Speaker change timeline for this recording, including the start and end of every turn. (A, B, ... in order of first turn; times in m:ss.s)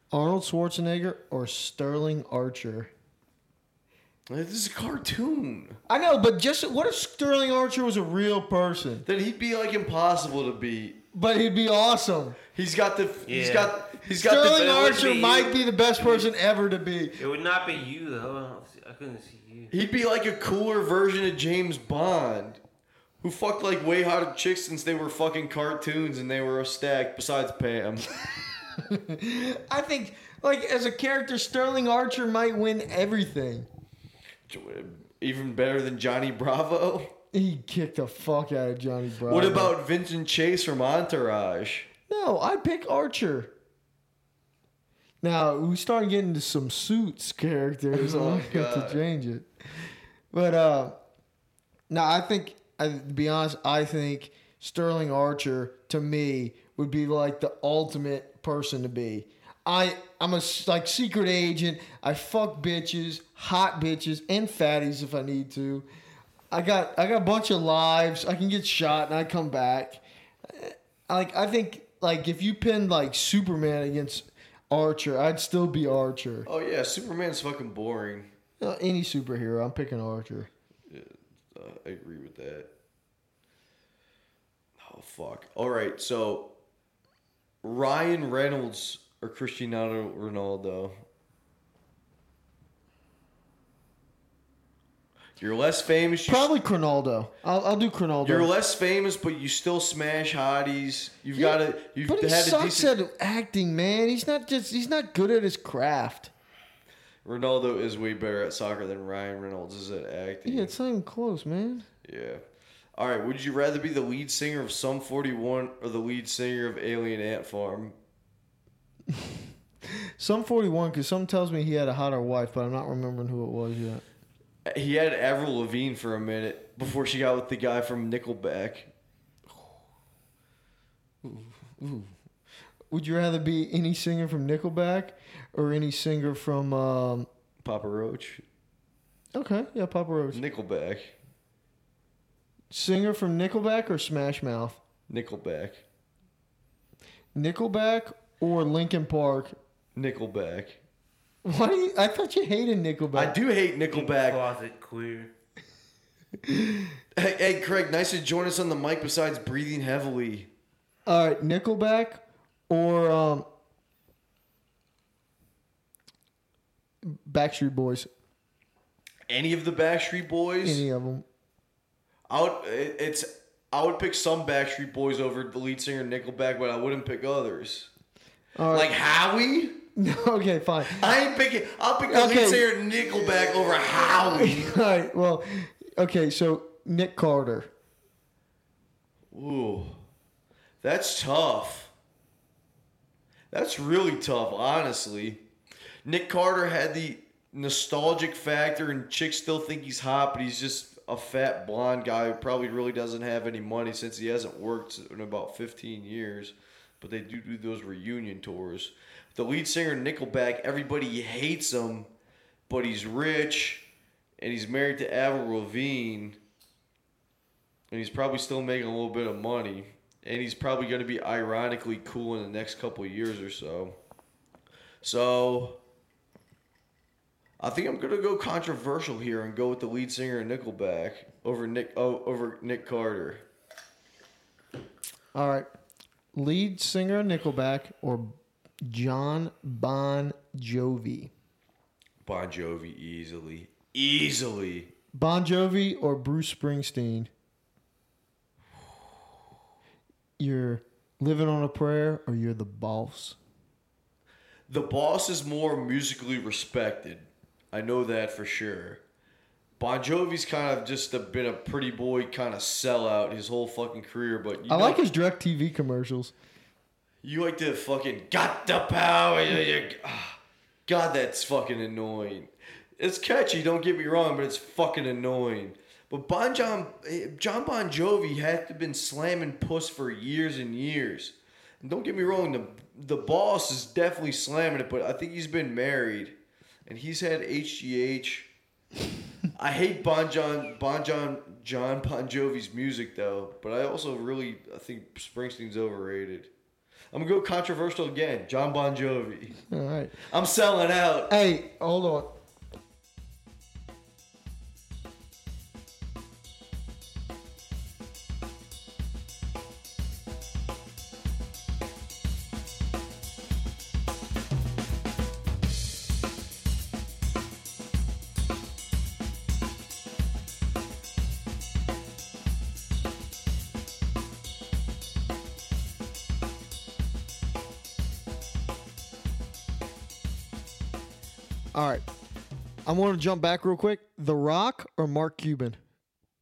0:00.1-0:02.9 A
0:04.3-0:05.8 B
0:05.9-0:09.1 A
0:09.0-0:11.0 B
0:11.1-0:12.4 A
0:12.5-0:15.0 B
0:13.2-0:13.9 C
0:14.1-0:17.2 A
0:14.5-0:16.2 C
0:17.2-0:19.7 C
0:19.7-0:22.6 B
0:23.2-0:28.1 B
0:28.8-0:33.7 A
0:34.5-0:37.1 B
0:37.3-0:39.7 A
0:39.3-0:41.9 B
0:42.1-0:43.5 A
0:45.2-0:49.5 A
0:47.9-0:49.0 B
0:50.3-0:51.0 A
0:51.9-1:05.9 A
1:06.5-1:16.5 A
1:16.4-1:18.3 B
1:18.6-1:20.5 A
1:20.9-1:22.7 B
1:24.8-1:26.5 B
1:27.6-1:30.9 B
1:35.4-1:36.5 B
1:36.2-1:38.5 A
1:38.2-1:42.9 B
1:41.3-1:46.3 A
1:47.2-1:50.7 B
1:50.4-1:51.9 A
1:52.0-1:52.4 B
1:53.0-1:58.0 B
1:59.1-2:04.0 A
2:04.6-2:08.9 B
2:11.2-2:12.1 A
2:12.9-2:17.3 A
2:17.6-2:18.4 B
2:19.3-2:20.4 A
2:20.3-2:21.1 B
2:22.7-2:24.8 A
2:25.1-2:25.8 B
2:27.3-2:29.6 A
2:29.9-2:30.8 B
2:31.4-2:33.4 A
2:33.1-2:34.4 B
2:33.9-2:35.3 C
2:36.4-2:36.9 A
2:37.2-2:40.5 B
2:41.0-2:43.4 A
2:47.0-2:48.1 A
2:49.3-2:50.8 B
2:50.6-2:51.2 A
2:52.3-2:57.9 B
2:58.5-2:58.9 A
2:58.7-2:59.8 B
3:00.0-3:01.2 A
3:00.9-3:04.8 B
3:02.1-3:02.7 A
3:03.2-3:07.7 A
3:09.3-3:10.0 B
3:10.8-3:11.9 B
3:13.5-3:15.4 B
3:16.0-3:32.1 B
3:32.7-3:33.8 B
3:34.4-3:36.4 B
3:37.9-3:44.0 B
3:45.0-3:45.8 B
3:47.6-3:53.4 B
3:55.3-3:55.7 A
3:56.3-4:01.3 A
4:02.2-4:04.9 B
4:05.1-4:07.3 A
4:10.4-4:13.4 A
4:14.7-4:19.0 B
4:19.8-4:25.0 B
4:24.7-4:26.3 A
4:27.2-4:46.3 B
4:46.8-4:48.5 B
4:49.5-4:56.5 B
4:57.1-4:59.6 B
4:59.7-5:00.2 A
5:00.2-5:01.3 B
5:01.3-5:02.3 A
5:31.7-5:32.0 A
5:32.8-5:35.8 A